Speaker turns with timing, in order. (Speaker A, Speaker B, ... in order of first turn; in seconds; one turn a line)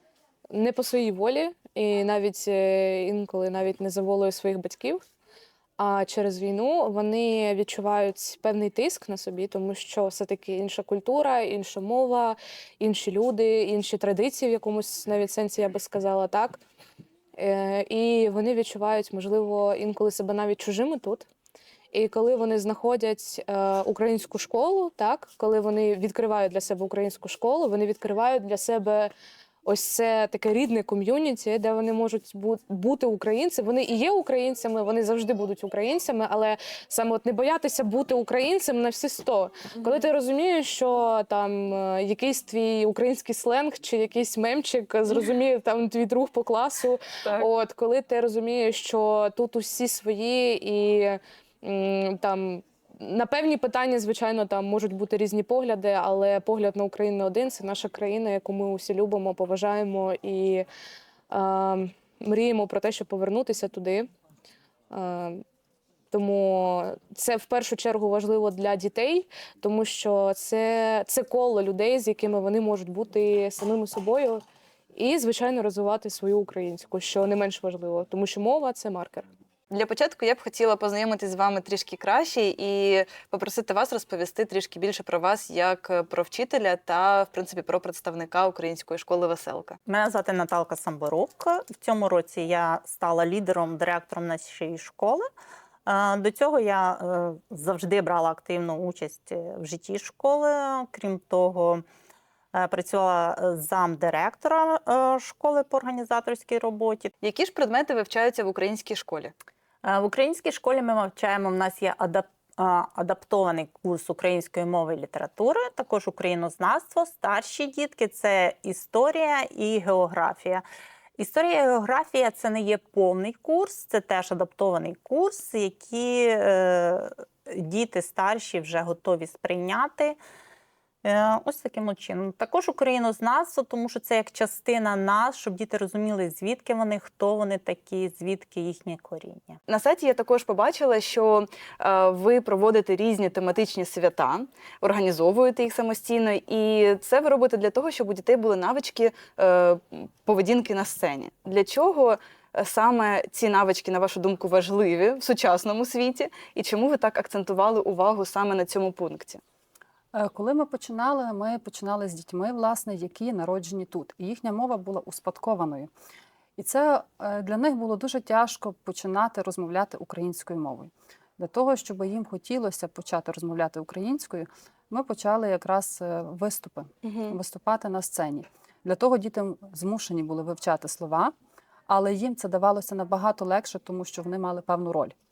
Speaker A: 0.5-5.0
Speaker A: 5.8-16.6
Speaker A: 17.4-21.3
Speaker A: 21.9-29.1
Speaker A: 29.6-60.6
Speaker B: 39.8-40.1
Speaker B: 47.2-47.5
Speaker A: 61.3-64.1
Speaker A: 64.9-65.4
Speaker A: 66.1-74.4
Speaker A: 74.9-79.3
Speaker B: 79.7-89.8
Speaker C: 89.8-95.2
Speaker C: 95.9-101.8
Speaker C: 102.5-107.1
Speaker B: 107.2-109.3
Speaker C: 109.8-120.6
Speaker C: 121.2-130.2
Speaker C: 131.0-139.6
Speaker B: 139.7-159.4
Speaker D: 160.1-165.9
Speaker D: 166.6-181.3
Speaker B: 177.0-177.4
Speaker D: 181.9-185.1